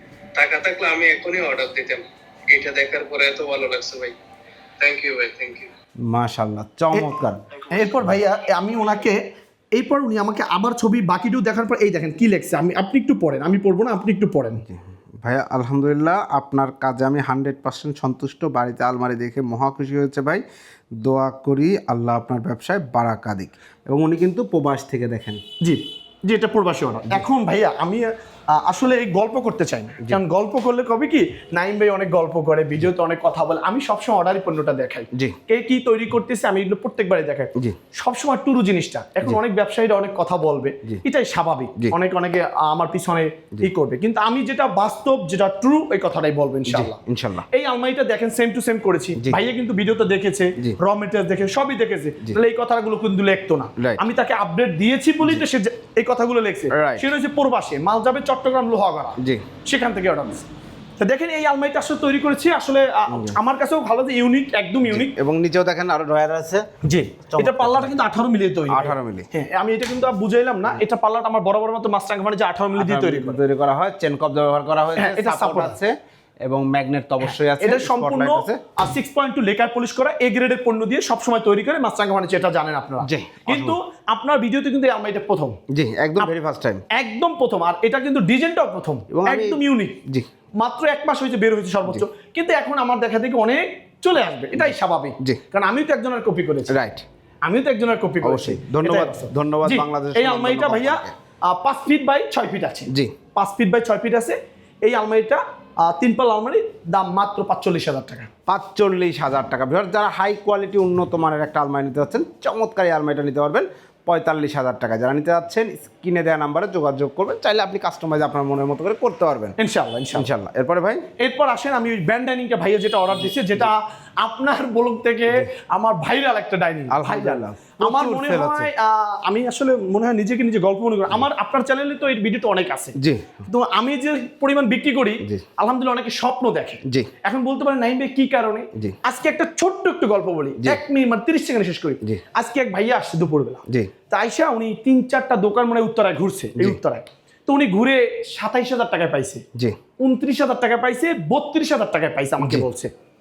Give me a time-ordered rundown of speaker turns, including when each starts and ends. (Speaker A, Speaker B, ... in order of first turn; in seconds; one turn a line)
Speaker A: 0.3-4.1
Speaker A: 4.8-5.7
Speaker B: 6.1-7.4
Speaker C: 7.7-9.2
Speaker C: 9.7-14.6
Speaker B: 14.7-20.4
Speaker B: 21.0-25.4
Speaker C: 25.6-47.0
Speaker B: 46.7-47.5
Speaker C: 47.5-60.5
Speaker B: 56.7-57.1
Speaker B: 59.2-59.4
Speaker C: 61.0-65.1
Speaker B: 63.1-63.4
Speaker B: 64.9-66.6
Speaker C: 66.8-73.4
Speaker B: 67.3-67.9
Speaker B: 68.7-69.3
Speaker B: 72.8-78.6
Speaker C: 75.0-75.8
Speaker C: 77.2-85.6
Speaker B: 83.0-83.8
Speaker B: 85.7-86.8
Speaker C: 86.9-90.0
Speaker B: 89.1-90.2
Speaker C: 90.6-96.7
Speaker B: 94.6-95.4
Speaker B: 96.7-97.0
Speaker C: 97.4-108.3
Speaker B: 98.2-101.1
Speaker B: 108.5-119.5
Speaker C: 119.6-120.3
Speaker B: 120.1-121.0
Speaker C: 121.2-132.9
Speaker B: 126.9-128.7
Speaker B: 133.0-133.4
Speaker C: 133.5-149.4
Speaker C: 150.0-152.9
Speaker B: 152.4-152.7